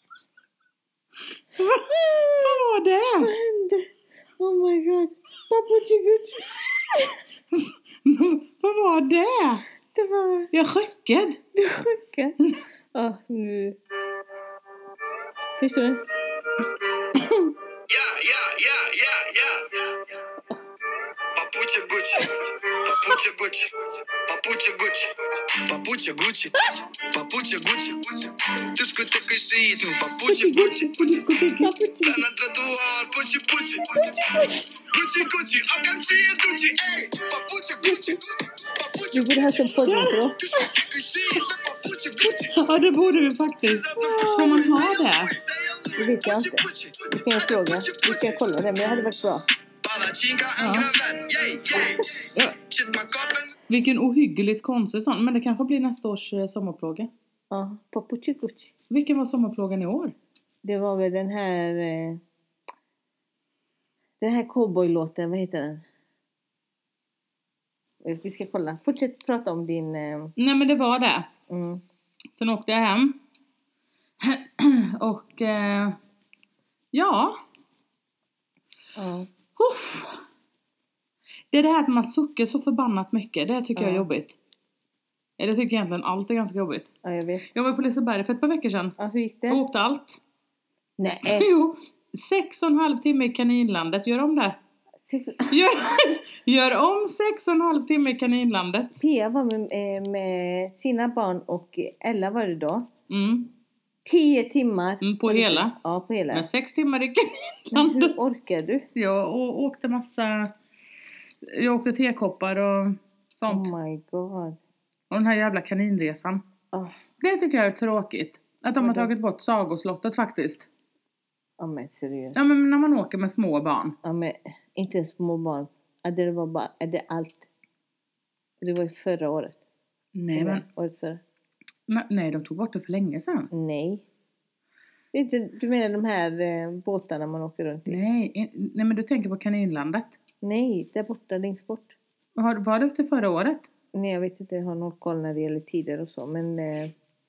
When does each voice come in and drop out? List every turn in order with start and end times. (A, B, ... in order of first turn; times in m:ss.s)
0:01.6-0:03.3 A
0:01.7-0:02.6 B
0:03.2-0:03.9 B
0:04.4-0:07.1 B
0:07.5-0:09.6 A
0:09.9-0:10.5 B
0:10.5-0:11.4 A
0:11.6-0:12.4 B
0:12.9-0:13.8 B
0:15.6-0:16.0 B
0:17.9-0:20.2 C
0:21.3-0:31.2 C
0:30.3-0:31.8 A
0:31.6-0:32.2 B
0:32.0-0:42.6 C
0:39.1-0:40.4 B
0:39.8-0:40.2 A
0:42.5-0:45.3 A
0:43.6-0:48.4 C
0:46.0-0:49.4 B
0:49.8-0:53.5 C
0:50.6-0:50.9 A
0:53.7-0:57.1 A
0:57.5-0:58.7 B
0:58.9-1:00.2 A
1:00.6-1:02.2 B
1:04.2-1:05.8 B
1:08.0-1:10.3 B
1:10.4-1:11.3 A
1:11.5-1:11.8 B
1:12.3-1:13.2 A
1:14.2-1:16.0 A
1:16.9-1:17.4 A
1:19.0-1:19.3 B
1:19.6-1:20.2 A
1:21.5-1:24.4 A
1:23.8-1:24.1 B
1:25.4-1:26.9 A
1:27.0-1:27.5 B
1:27.5-1:29.0 A
1:29.0-1:29.6 B
1:29.5-1:30.2 A
1:31.0-1:31.5 B
1:31.2-1:34.6 A
1:35.1-1:35.6 B
1:35.5-1:39.0 A
1:39.0-1:42.9 B
1:43.1-1:43.5 A
1:44.0-1:46.5 B
1:45.0-1:45.8 A
1:46.3-1:48.2 A
1:47.7-1:48.9 B
1:49.0-1:50.5 A
1:51.4-1:53.7 A
1:53.5-1:54.6 B
1:55.1-1:56.4 A
1:57.2-2:00.7 A
1:58.8-1:59.1 B
2:01.6-2:02.4 B
2:02.4-2:04.0 A
2:04.0-2:07.5 B
2:08.6-2:09.6 B
2:10.2-2:10.6 A
2:10.3-2:11.2 B
2:11.9-2:13.5 A
2:13.5-2:14.1 B
2:15.1-2:18.0 B
2:17.9-2:20.2 A
2:20.4-2:22.0 B
2:22.4-2:23.7 A
2:23.9-2:26.9 B